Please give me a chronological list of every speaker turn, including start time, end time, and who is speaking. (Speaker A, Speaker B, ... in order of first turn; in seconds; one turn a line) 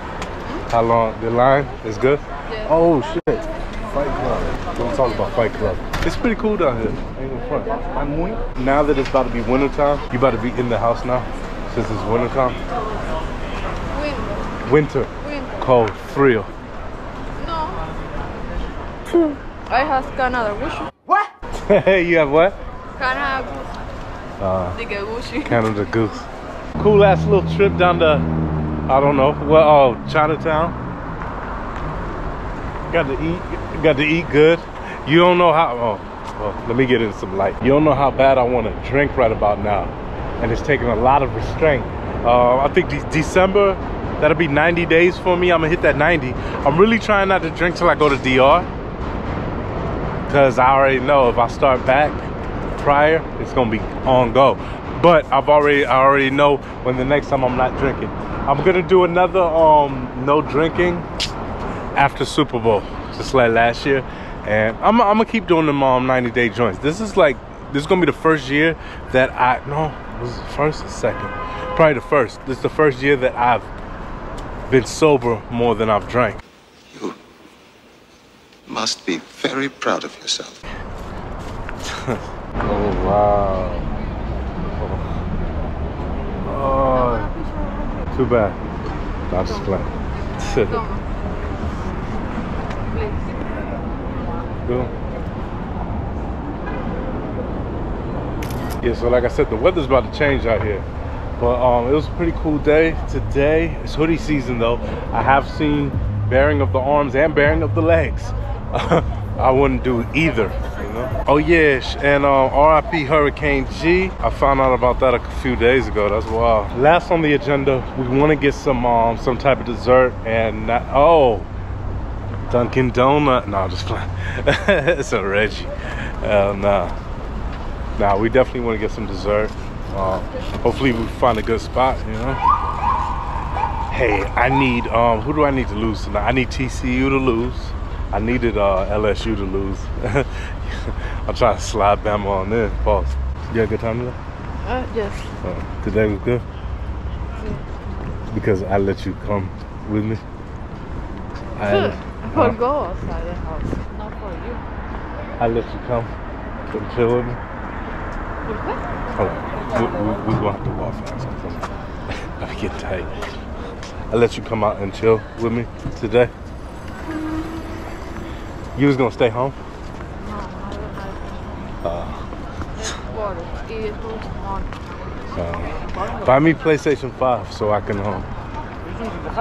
Speaker A: 0.7-12.6
Speaker B: 2.5-2.7
Speaker B: 13.9-14.5
Speaker A: 14.6-16.5
Speaker B: 15.2-15.6
Speaker B: 17.4-17.8
Speaker B: 19.7-20.9
Speaker A: 21.5-22.6
Speaker B: 23.0-23.6
Speaker A: 24.4-24.8
Speaker B: 24.8-25.6
Speaker A: 25.4-28.2
Speaker A: 28.9-30.8
Speaker A: 32.9-48.7
Speaker A: 50.3-61.1
Speaker A: 61.9-73.7
Speaker A: 74.7-76.4
Speaker C: 76.9-77.2
Speaker C: 78.7-80.6
Speaker A: 81.8-83.9
Speaker A: 84.8-85.2
Speaker A: 86.4-87.3
Speaker B: 86.9-87.9
Speaker A: 88.1-88.6
Speaker A: 89.3-90.8
Speaker B: 89.5-89.8
Speaker B: 90.5-91.1
Speaker B: 92.8-93.6
Speaker A: 94.6-94.9
Speaker A: 98.8-100.9
Speaker A: 101.4-121.5
Speaker A: 122.5-127.0
Speaker A: 128.0-132.4
Speaker A: 133.9-144.2
Speaker B: 144.6-145.3
Speaker A: 145.4-146.4
Speaker B: 147.4-147.6
Speaker A: 148.3-150.2
Speaker A: 151.6-152.6
Speaker B: 151.7-154.6
Speaker A: 155.4-156.1
Speaker A: 156.7-157.4
Speaker B: 158.4-158.8
Speaker A: 159.1-161.6
Speaker A: 162.2-163.2
Speaker A: 164.1-166.3
Speaker A: 168.8-169.6
Speaker B: 170.2-171.3
Speaker A: 171.8-172.2
Speaker B: 173.0-174.7
Speaker A: 175.3-178.3